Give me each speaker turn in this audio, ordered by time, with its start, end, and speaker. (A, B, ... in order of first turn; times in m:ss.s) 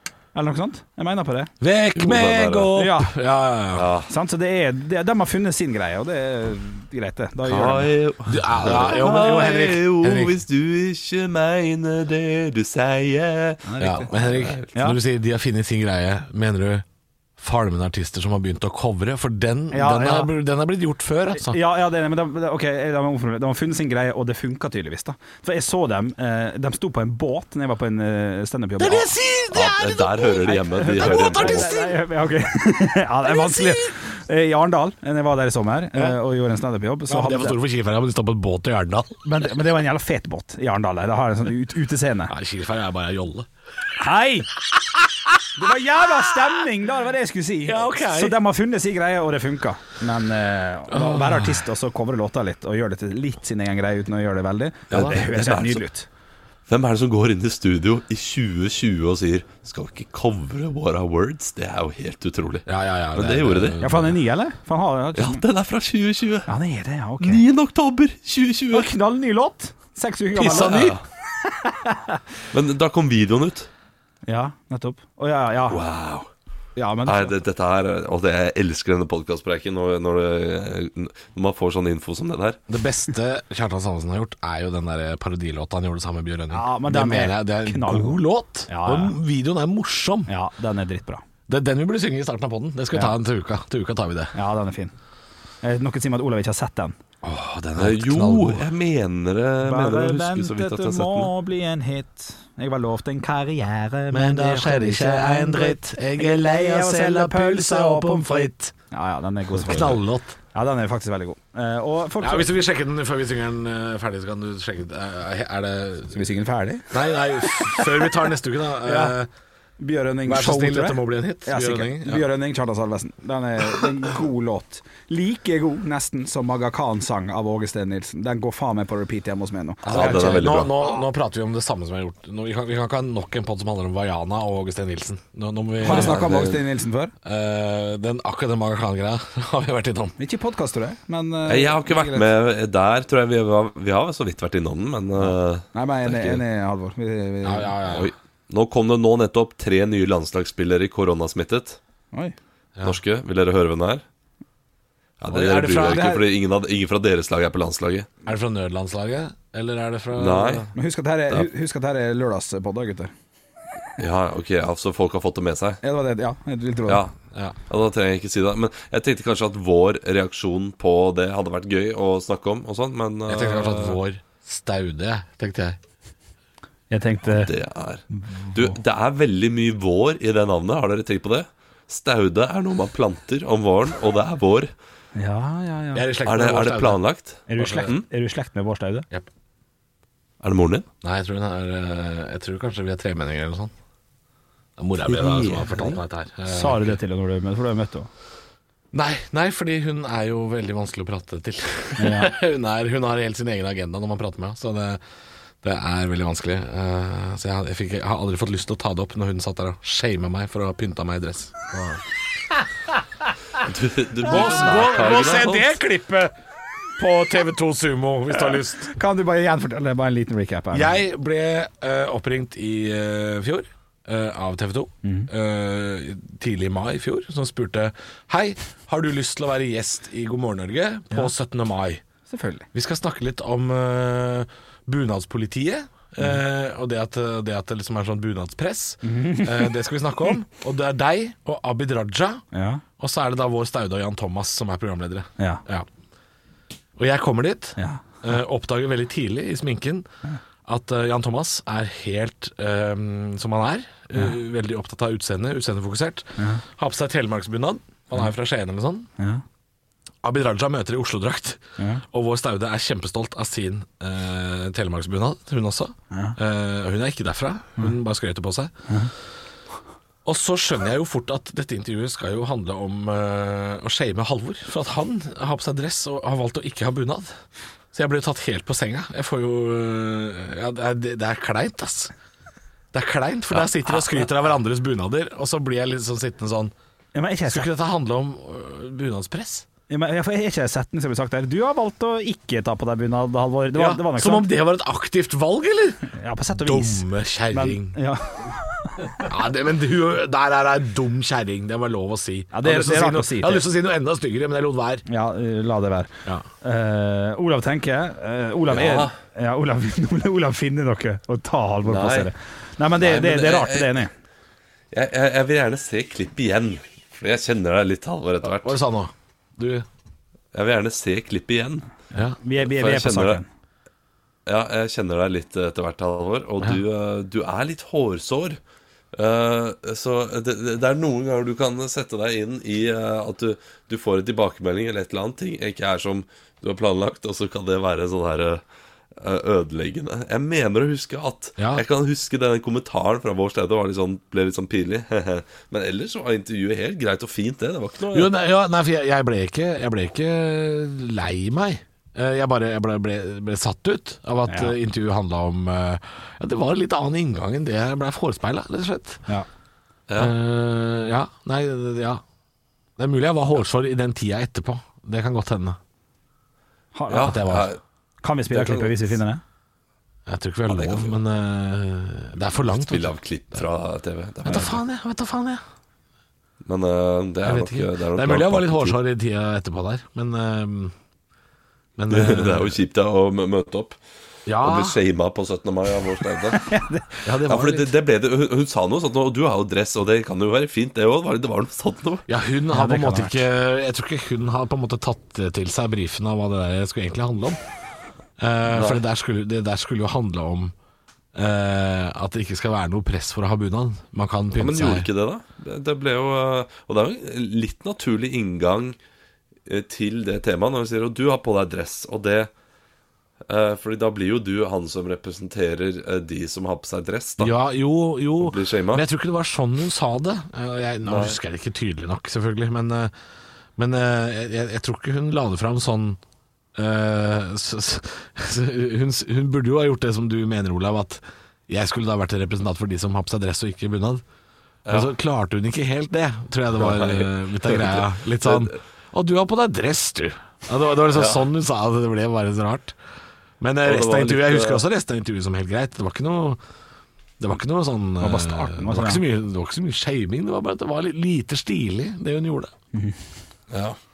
0:00.3-0:01.5 A
0:01.6-0:03.9 B
0:02.0-0:02.7 C
0:02.8-0:03.1 A
0:03.8-0:04.1 C
0:04.1-0:07.9 A
0:07.4-0:14.6 C
0:08.3-0:10.4 B
0:13.6-0:15.0 A
0:13.8-0:16.8 B
0:17.4-0:21.6 B
0:19.7-0:20.3 A
0:21.4-0:29.2 A
0:28.8-0:31.9 B
0:29.5-0:31.7 C
0:30.5-0:37.6 A
0:33.3-0:33.9 B
0:35.9-0:36.2 B
0:37.1-0:39.2 B
0:39.2-0:42.3 A
0:42.3-0:43.5 B
0:44.0-0:44.5 A
0:45.5-0:56.1 A
0:47.7-0:48.4 B
0:50.9-0:51.6 B
0:54.9-0:55.2 B
0:54.9-0:55.8 C
0:56.7-1:03.8 C
1:02.7-1:04.2 B
1:03.8-1:05.4 A
1:05.2-1:06.5 C
1:06.5-1:07.4 A
1:07.2-1:08.9 C
1:08.7-1:12.2 A
1:10.3-1:11.0 B
1:10.5-1:11.0 C
1:12.5-1:13.7 C
1:14.3-1:15.8 A
1:15.7-1:16.3 C
1:16.8-1:17.4 A
1:17.1-1:22.6 C
1:22.7-1:30.3 B
1:26.5-1:29.2 A
1:30.3-1:31.2 A
1:31.5-1:34.4 B
1:34.4-1:34.9 A
1:35.6-1:37.0 A
1:37.2-1:38.7 B
1:37.8-1:41.3 C
1:39.6-1:50.0 A
1:44.1-1:48.7 B
1:49.5-1:50.4 B
1:50.5-1:52.5 A
1:52.2-1:56.2 B
1:56.1-1:58.1 A
1:56.9-1:59.3 B
1:58.8-1:59.2 A
1:59.8-2:10.6 A
2:00.3-2:02.2 B
2:09.8-2:16.6 B
2:09.9-2:10.7 C
2:15.8-2:17.1 A
2:15.8-2:16.6 C
2:17.2-2:20.2 B
2:20.2-2:22.3 A
2:21.5-2:26.1 C
2:25.2-2:27.8 A
2:27.4-2:28.1 B
2:27.9-2:31.8 C
2:32.8-2:34.0 C
2:35.2-2:38.1 C
2:35.3-2:36.2 B
2:35.8-2:36.2 A
2:38.3-2:40.7 B
2:40.1-2:40.7 C
2:40.8-2:43.1 A
2:44.0-2:45.8 C
2:45.8-2:47.0 A
2:47.7-2:54.0 C
2:53.3-2:55.8 B
2:56.9-2:57.5 A
2:57.2-3:04.7 C
2:58.1-2:58.8 A
3:05.2-3:06.1 A
3:06.0-3:07.0 B
3:06.2-3:08.0 C
3:07.5-3:09.1 A
3:07.6-3:07.9 B
3:10.4-3:10.9 C
3:11.0-3:13.7 B
3:14.8-3:17.0 B
3:15.1-3:16.0 C
3:16.5-3:18.1 A
3:18.9-3:25.0 B
3:22.0-3:22.4 A
3:25.6-3:32.0 B
3:33.6-3:35.8 C
3:34.2-3:36.3 B
3:37.0-3:38.9 B
3:38.4-3:41.0 A
3:40.7-3:52.0 B
3:45.0-3:45.3 A
3:52.3-3:52.7 A
3:52.7-4:02.4 B
3:59.0-3:59.7 A
4:02.5-4:02.8 A
4:03.0-4:05.9 B
4:05.4-4:05.6 A
4:07.0-4:10.1 B
4:10.7-4:19.1 B
4:20.2-4:28.9 B
4:21.8-4:22.0 A
4:26.1-4:26.4 A
4:30.2-4:37.3 B
4:37.9-4:42.1 B
4:42.9-4:46.7 B
4:47.1-4:47.7 A
4:47.5-4:49.6 B
4:49.9-4:54.5 A
4:53.7-4:58.0 B
4:56.1-4:59.2 A
4:59.2-5:05.0 B
5:02.5-5:03.6 A
5:05.1-5:06.1 A
5:06.6-5:14.1 A
5:08.7-5:09.1 C
5:11.8-5:12.3 C
5:13.0-5:14.0 C
5:14.9-5:18.8 C
5:18.4-5:19.9 B
5:20.5-5:21.9 C
5:22.4-5:23.5 A
5:22.6-5:23.4 C
5:24.5-5:28.6 C
5:29.1-5:38.6 C
5:39.2-5:48.3 C
5:41.6-5:41.8 B
5:48.1-5:59.2 B
5:54.5-5:54.8 A
6:00.1-6:00.3 C
6:00.2-6:02.2 B
6:03.0-6:05.8 B
6:06.9-6:07.4 A
6:07.1-6:07.8 C
6:07.2-6:07.7 B
6:08.2-6:09.4 A
6:08.5-6:09.1 C
6:10.3-6:13.6 B
6:10.7-6:11.2 C
6:12.6-6:14.8 C
6:14.4-6:15.6 B
6:16.6-6:19.0 C
6:17.4-6:20.9 B
6:22.0-6:22.8 B
6:22.1-6:24.0 C
6:24.5-6:25.0 B
6:24.6-6:26.6 C
6:26.6-6:27.1 A
6:27.2-6:27.9 B
6:27.4-6:32.3 C
6:32.3-6:37.6 B
6:32.7-6:33.4 A
6:38.4-6:40.7 B
6:38.7-6:39.0 C
6:41.3-6:45.1 B
6:44.6-6:49.0 C
6:49.7-6:52.5 C
6:53.5-6:57.6 C
6:57.4-7:03.1 B
6:58.4-6:59.0 C
7:01.1-7:01.4 C
7:03.8-7:06.2 B
7:06.8-7:14.2 B
7:14.9-7:15.1 C
7:14.9-7:23.0 B
7:16.8-7:18.8 C
7:21.2-7:21.4 C
7:23.6-7:26.6 B
7:23.8-7:24.8 C
7:27.4-7:32.7 B
7:28.2-7:29.2 A
7:32.9-7:33.2 A
7:33.7-7:34.0 C